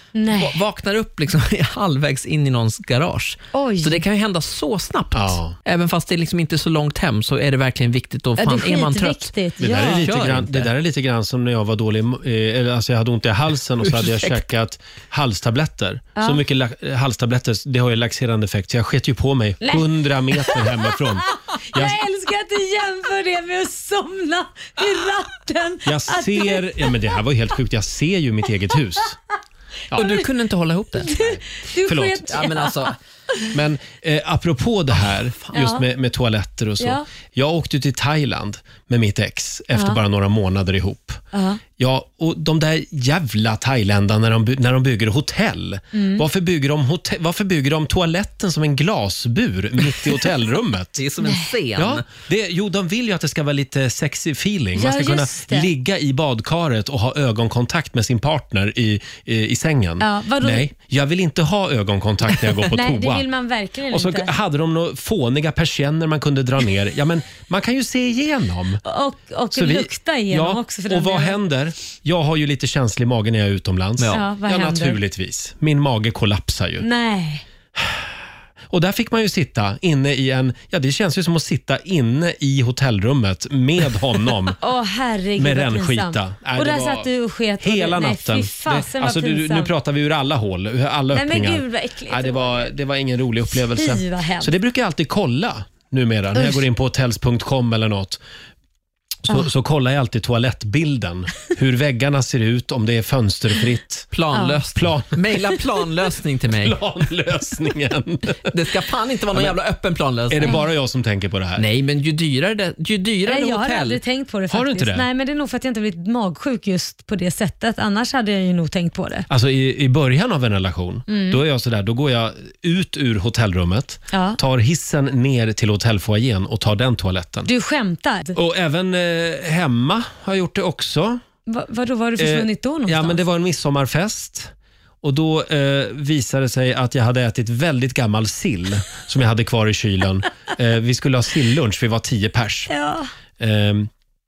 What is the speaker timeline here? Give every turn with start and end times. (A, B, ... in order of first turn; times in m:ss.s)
0:00.2-0:00.6 A
0:00.3-0:10.7 B
0:03.5-0:04.0 A
0:05.1-0:05.6 C
0:08.4-0:10.1 A
0:09.6-0:22.0 C
0:13.8-0:14.4 B
0:19.6-0:27.1 A
0:25.8-0:29.2 C
0:29.9-0:31.4 B
0:30.0-0:30.3 A
0:31.0-0:33.5 A
0:31.9-0:32.3 C
0:32.3-0:33.0 B
0:33.5-0:41.2 C
0:35.5-0:35.8 A
0:36.8-0:37.0 A
0:39.7-0:40.0 A
0:41.3-0:41.6 A
0:41.8-0:51.0 C
0:45.9-0:46.2 A
0:51.0-0:52.1 B
0:51.2-0:51.5 A
0:51.8-1:03.3 C
0:54.8-0:55.7 A
1:00.0-1:00.7 A
1:02.7-1:04.3 A
1:03.9-1:08.8 C
1:08.8-1:11.4 A
1:09.5-1:16.9 C
1:14.1-1:15.0 A
1:16.8-1:17.4 A
1:17.8-1:18.1 C
1:18.7-1:24.6 C
1:24.6-1:29.7 A
1:25.4-1:27.1 C
1:27.6-1:38.2 C
1:31.1-1:32.7 A
1:33.7-1:34.5 A
1:39.2-1:44.1 C
1:44.1-1:46.8 B
1:44.3-1:44.6 A
1:44.8-1:45.2 C
1:46.6-1:48.5 C
1:48.4-1:50.6 B
1:50.3-1:51.7 C
1:51.6-1:54.0 B
1:53.2-1:59.3 A
1:54.5-1:55.1 C
1:59.3-2:07.5 C
2:01.1-2:01.4 A
2:04.1-2:04.4 A
2:07.5-2:08.4 A
2:08.4-2:11.2 C
2:11.5-2:13.2 A
2:12.2-2:22.7 C
2:22.7-2:23.1 A
2:23.4-2:23.9 C